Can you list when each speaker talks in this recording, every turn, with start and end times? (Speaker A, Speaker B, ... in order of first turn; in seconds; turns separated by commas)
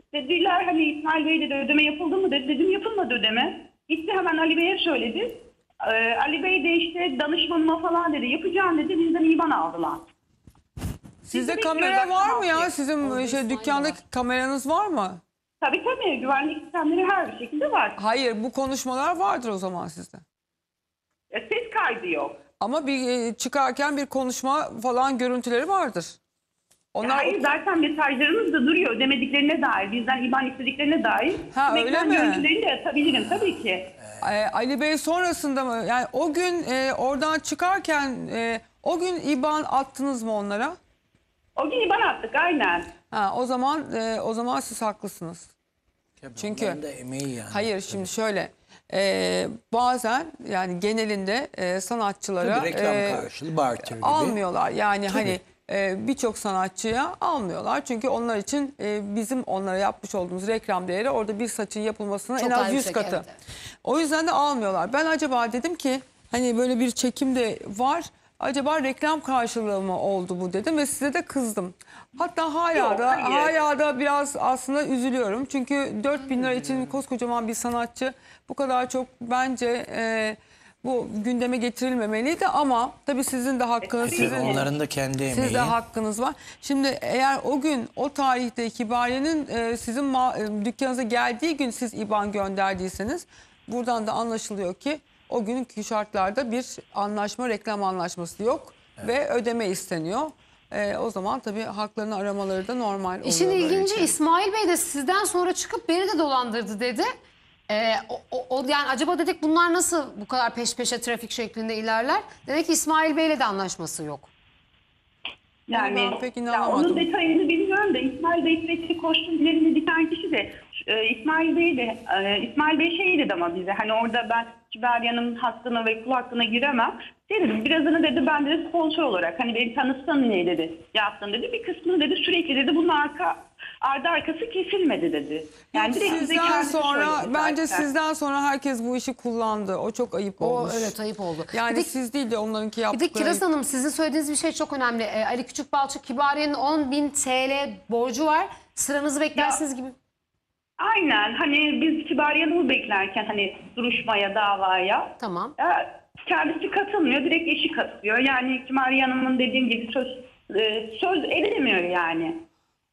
Speaker A: 0.1-10.0, Speaker B: 11.2-15.2, Speaker A: 11.3-12.7, Speaker C: 13.0-14.0, Speaker A: 15.6-17.9, Speaker B: 18.0-20.2, Speaker A: 21.3-22.4, Speaker B: 22.6-26.2, Speaker B: 26.9-27.5, Speaker A: 27.0-33.9, Speaker B: 31.5-32.5, Speaker B: 34.2-40.8, Speaker A: 41.5-42.9, Speaker B: 43.1-45.5, Speaker D: 46.2-48.1, Speaker B: 46.4-46.8, Speaker B: 47.5-53.3, Speaker D: 52.4-54.4, Speaker B: 53.8-63.2, Speaker C: 62.4-63.4, Speaker B: 63.8-84.7, Speaker A: 72.7-73.5, Speaker A: 83.8-84.7, Speaker D: 84.0-85.7, Speaker B: 85.3-104.1, Speaker C: 103.2-107.1, Speaker C: 107.7-114.3, Speaker A: 115.7-137.9, Speaker B: 115.7-117.1, Speaker B: 135.7-140.9, Speaker C: 140.4-141.9, Speaker B: 141.5-143.4, Speaker C: 142.9-149.9, Speaker A: 149.3-149.6, Speaker A: 150.8-162.3, Speaker C: 155.2-155.5